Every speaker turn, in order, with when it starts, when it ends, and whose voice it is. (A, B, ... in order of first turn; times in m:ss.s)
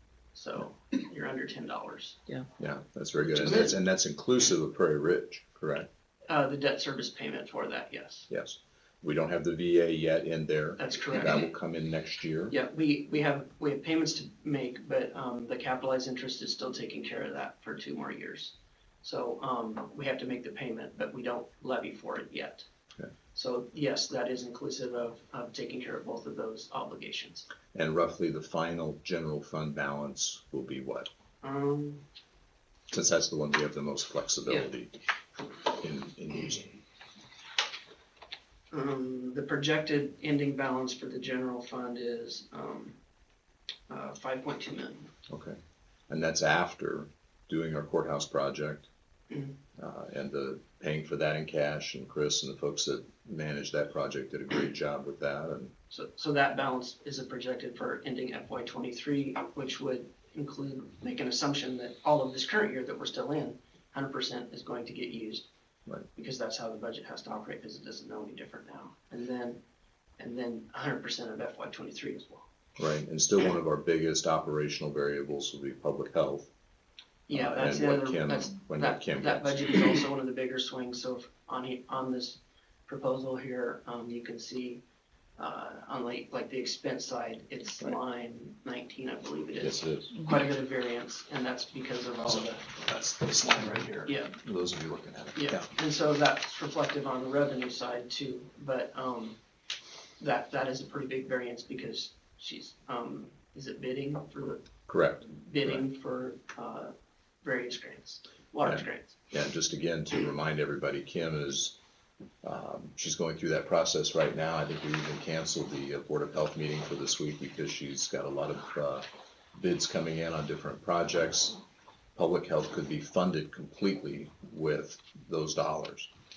0:00.3-0:02.2 A
0:02.6-0:05.9 B
0:03.4-0:03.7 A
0:06.3-0:08.3 A
0:08.3-0:12.6 B
0:10.8-0:11.4 A
0:12.5-0:22.6 A
0:23.3-0:27.5 A
0:27.7-0:31.1 B
0:31.4-0:32.0 A
0:32.9-0:34.9 B
0:35.7-0:36.8 B
0:38.7-0:43.0 A
0:43.9-0:45.1 A
0:45.3-0:45.6 B
0:46.1-0:48.9 B
0:49.8-0:55.7 B
0:55.9-1:05.5 A
1:06.1-1:09.6 A
1:10.2-1:12.5 A
1:12.8-1:16.5 B
1:17.3-1:24.8 A
1:17.3-1:19.8 B
1:25.4-1:32.7 A
1:29.6-1:30.2 B
1:32.6-1:35.7 B
1:34.0-1:34.4 A
1:35.3-1:39.4 A
1:40.2-1:44.6 A
1:44.9-1:45.8 B
1:45.2-1:49.1 A
1:48.6-1:51.8 B
1:52.4-2:01.6 B
2:02.2-2:06.1 B